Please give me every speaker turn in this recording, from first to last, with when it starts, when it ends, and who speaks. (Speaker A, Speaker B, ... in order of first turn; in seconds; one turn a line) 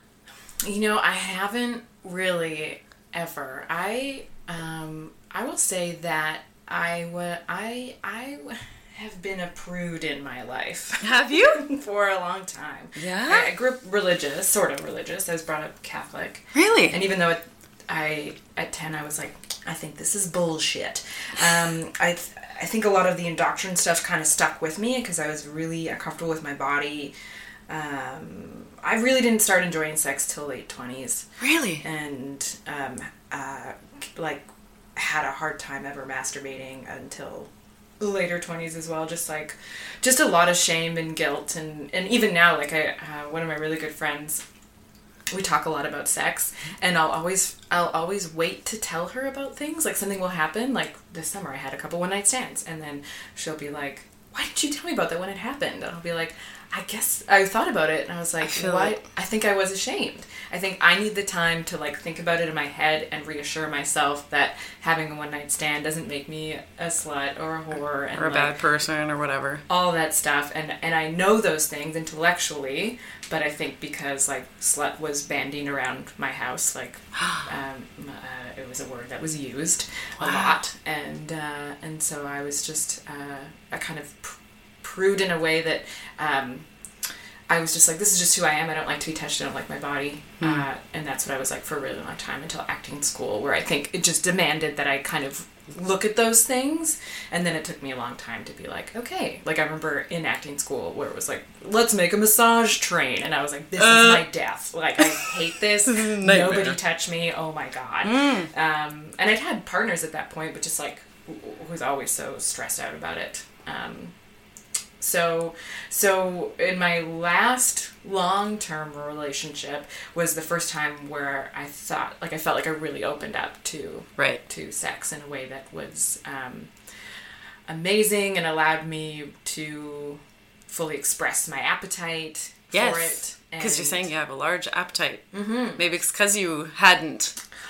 Speaker A: 0.6-27.1
Speaker B: 11.0-11.7
Speaker B: 13.0-13.5
Speaker B: 16.5-17.0
Speaker A: 27.7-31.3
Speaker B: 31.4-31.9
Speaker A: 31.8-44.4
Speaker A: 45.3-68.5
Speaker B: 58.4-59.0
Speaker B: 68.2-69.6
Speaker A: 69.7-86.7
Speaker B: 77.2-77.5
Speaker B: 80.2-80.6
Speaker A: 87.5-114.1
Speaker B: 90.4-90.7
Speaker B: 103.8-104.3
Speaker B: 105.0-106.8
Speaker B: 108.0-108.5
Speaker A: 115.0-126.7
Speaker A: 127.7-134.1
Speaker B: 132.7-137.4
Speaker A: 135.3-135.8